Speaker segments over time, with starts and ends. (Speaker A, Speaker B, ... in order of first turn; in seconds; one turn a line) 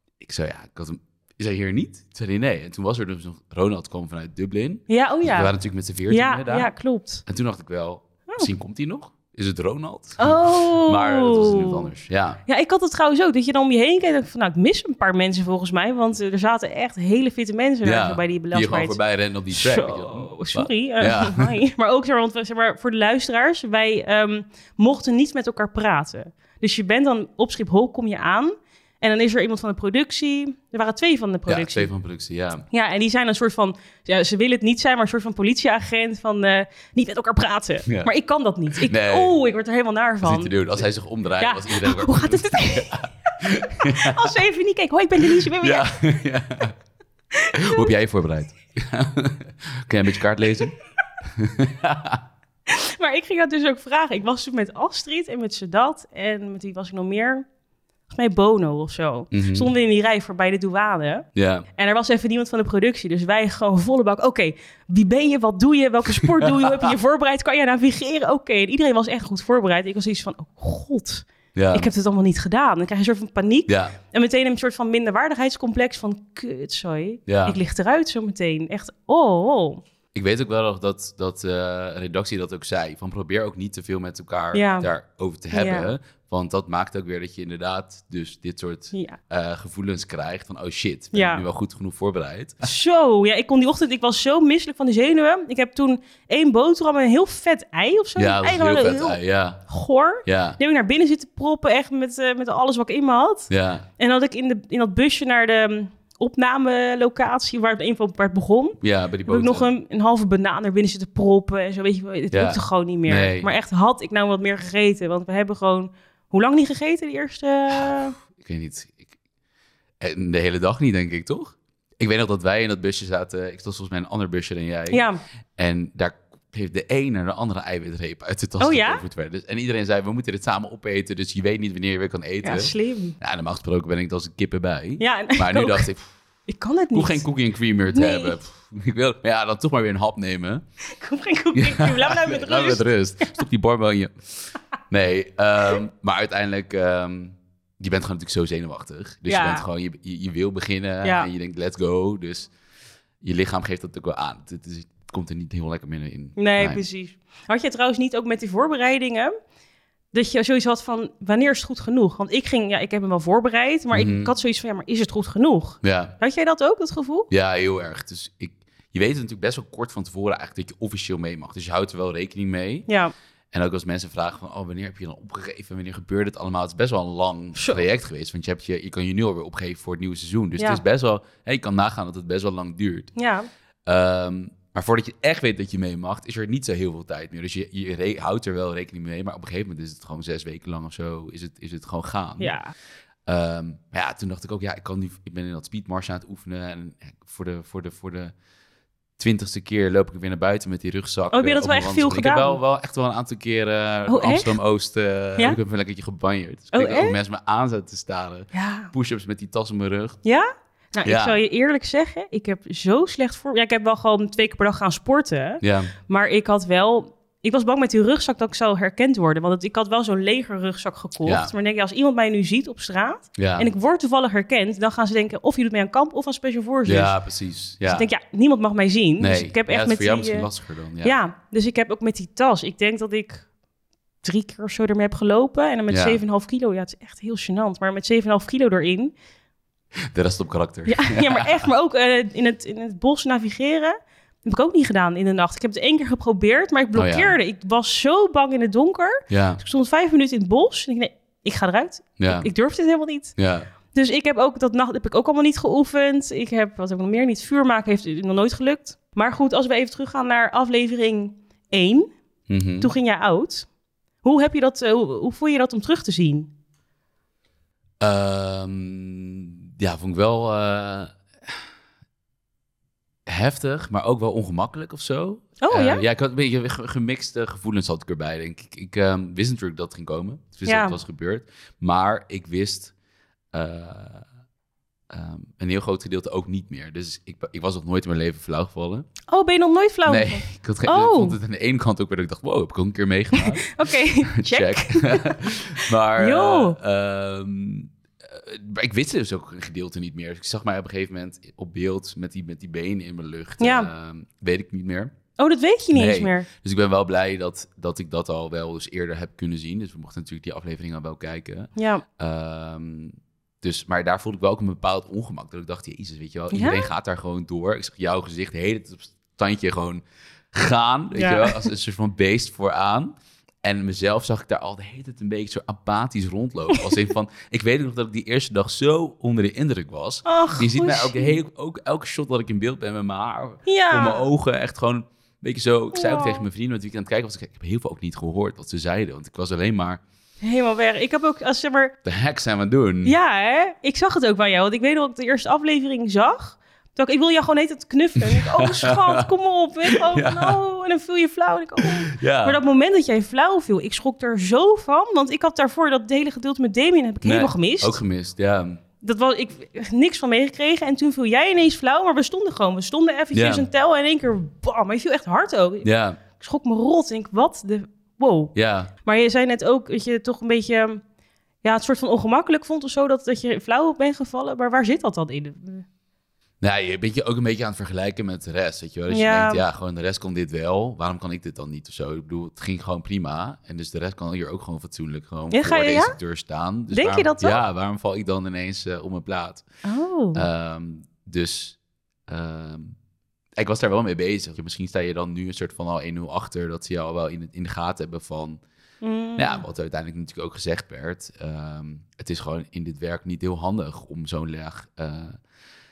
Speaker A: 0.2-6.7
Speaker B: 4.9-5.5
Speaker B: 6.1-7.2
Speaker A: 7.3-12.4
Speaker B: 10.2-11.9
Speaker B: 12.5-19.0
Speaker A: 17.8-21.6
Speaker B: 19.5-31.9
Speaker A: 31.5-32.6
Speaker B: 32.7-40.5
Speaker A: 38.7-39.4
Speaker A: 40.2-44.3
Speaker B: 41.4-46.1
Speaker A: 45.2-46.8
Speaker B: 47.3-47.9
Speaker A: 47.5-52.2
Speaker B: 52.7-57.4
Speaker B: 58.1-79.8
Speaker A: 59.3-59.7
Speaker A: 61.3-61.6
Speaker A: 66.2-66.9
Speaker A: 71.5-71.9
Speaker A: 73.7-73.9
Speaker A: 77.3-77.6
Speaker A: 80.1-92.7
Speaker B: 84.5-84.9
Speaker B: 85.5-85.9
Speaker B: 88.9-89.2
Speaker B: 91.1-91.4
Speaker B: 92.6-118.2
Speaker A: 98.2-99.6
Speaker A: 100.2-100.6
Speaker A: 103.5-103.9
Speaker A: 108.8-109.7
Speaker A: 112.3-113.5
Speaker A: 117.7-119.1
Speaker A: 120.0-125.0
Speaker B: 124.9-125.2
Speaker A: 125.6-136.1
Speaker B: 128.6-129.0
Speaker B: 132.4-133.2
Speaker B: 135.0-135.9
Speaker B: 136.5-137.2
Speaker A: 136.9-140.6
Speaker B: 137.9-138.3
Speaker B: 141.0-143.4
Speaker A: 141.6-144.1
Speaker A: 144.9-152.5
Speaker B: 149.3-149.6
Speaker B: 151.0-151.3
Speaker A: 153.2-156.8
Speaker B: 156.3-159.3
Speaker B: 160.1-167.3
Speaker A: 163.9-164.3
Speaker A: 165.8-166.1
Speaker A: 167.3-172.9
Speaker A: 173.5-183.1
Speaker B: 177.5-177.8
Speaker B: 183.2-183.5
Speaker A: 183.8-192.5
Speaker B: 192.4-192.7
Speaker A: 193.3-198.3
Speaker A: 199.2-210.2
Speaker B: 201.3-202.6
Speaker B: 204.1-204.5
Speaker B: 206.7-207.2
Speaker B: 208.5-208.9
Speaker B: 210.2-227.2
Speaker A: 211.0-211.4
Speaker A: 215.6-215.9
Speaker A: 221.2-221.5
Speaker A: 223.4-223.7
Speaker A: 226.8-228.1
Speaker B: 227.8-230.5
Speaker A: 229.2-231.2
Speaker B: 231.0-233.5
Speaker B: 234.2-239.1
Speaker A: 235.9-236.2
Speaker A: 240.1-241.7
Speaker B: 240.9-253.3
Speaker A: 246.9-247.4
Speaker A: 249.3-249.6
Speaker A: 252.2-252.5
Speaker A: 253.4-253.7
Speaker B: 253.9-262.1
Speaker A: 262.5-262.9
Speaker B: 262.8-263.7
Speaker B: 264.2-266.5
Speaker A: 268.0-271.6
Speaker A: 273.3-282.9
Speaker B: 275.6-276.0
Speaker B: 280.6-281.0
Speaker A: 283.5-284.2
Speaker A: 285.1-289.1
Speaker B: 289.3-291.4
Speaker A: 290.1-305.1
Speaker B: 293.4-295.4
Speaker B: 296.2-296.8
Speaker B: 303.6-303.9
Speaker B: 305.4-306.5
Speaker A: 305.9-340.0
Speaker B: 311.8-312.0
Speaker B: 316.5-316.9
Speaker B: 321.1-321.7
Speaker B: 330.2-331.4
Speaker B: 333.6-334.3
Speaker B: 335.9-336.4
Speaker B: 340.4-341.9
Speaker A: 342.0-343.1
Speaker B: 343.0-358.0
Speaker A: 348.2-349.2
Speaker A: 349.9-350.6
Speaker A: 351.8-352.6
Speaker A: 357.2-358.8
Speaker B: 359.0-368.5
Speaker A: 363.3-363.7
Speaker A: 365.8-366.2
Speaker A: 368.5-368.9
Speaker B: 369.0-371.0
Speaker B: 371.6-375.8
Speaker A: 376.6-389.6
Speaker B: 379.1-379.6
Speaker B: 385.5-386.1
Speaker B: 386.9-387.6
Speaker B: 389.8-390.4
Speaker A: 390.3-392.9
Speaker A: 393.6-398.6
Speaker B: 399.0-399.6
Speaker A: 399.4-405.4